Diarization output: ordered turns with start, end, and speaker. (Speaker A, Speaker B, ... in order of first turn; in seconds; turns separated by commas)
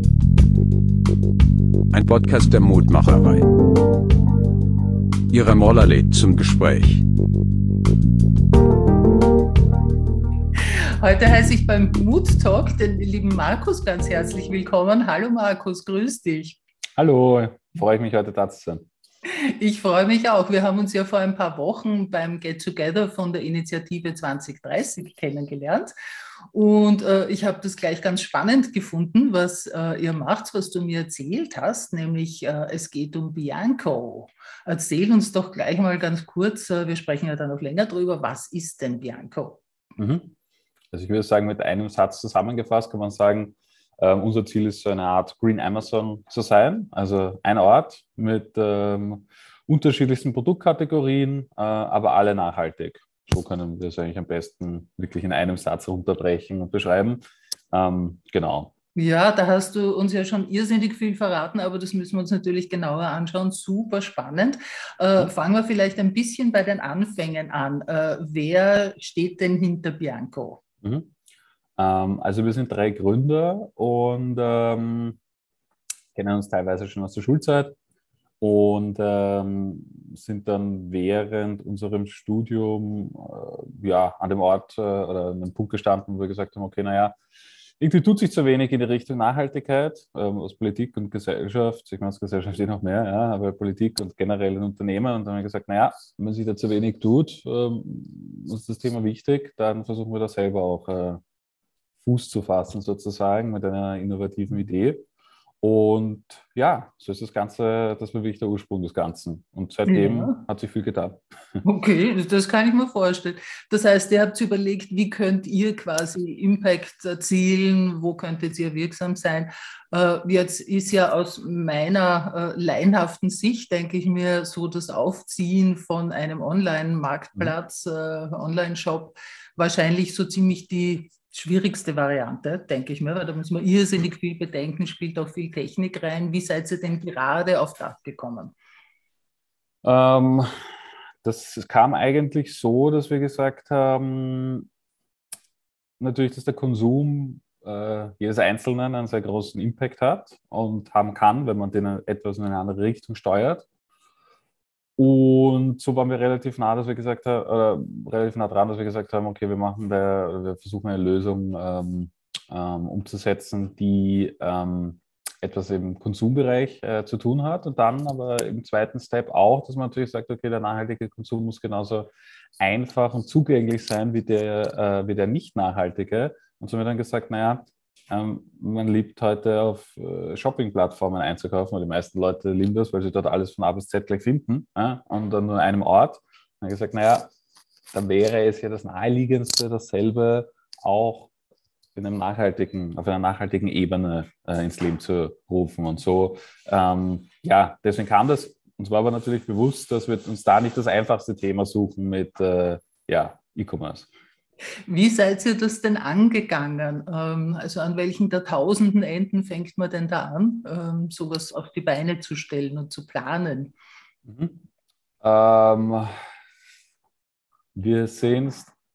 Speaker A: 1.9-3.5, Speaker A: 5.3-7.0, Speaker B: 10.8-16.6, Speaker C: 17.0-18.9, Speaker B: 19.2-25.9, Speaker B: 26.5-39.6, Speaker C: 40.0-40.3, Speaker C: 40.9-58.7, Speaker B: 59.0-70.6, Speaker C: 70.8-71.1, Speaker C: 71.8-75.2, Speaker C: 76.1-77.8, Speaker C: 78.4-87.2, Speaker C: 87.8-101.2, Speaker C: 102.0-105.0, Speaker C: 105.6-111.6, Speaker B: 109.8-110.4, Speaker B: 111.6-138.5, Speaker C: 139.8-140.5, Speaker C: 141.2-144.7, Speaker C: 146.0-153.6, Speaker C: 155.0-187.3, Speaker C: 187.9-191.3, Speaker C: 191.9-204.1, Speaker B: 204.9-213.7, Speaker C: 214.2-214.6, Speaker C: 215.2-216.1, Speaker C: 217.7-218.7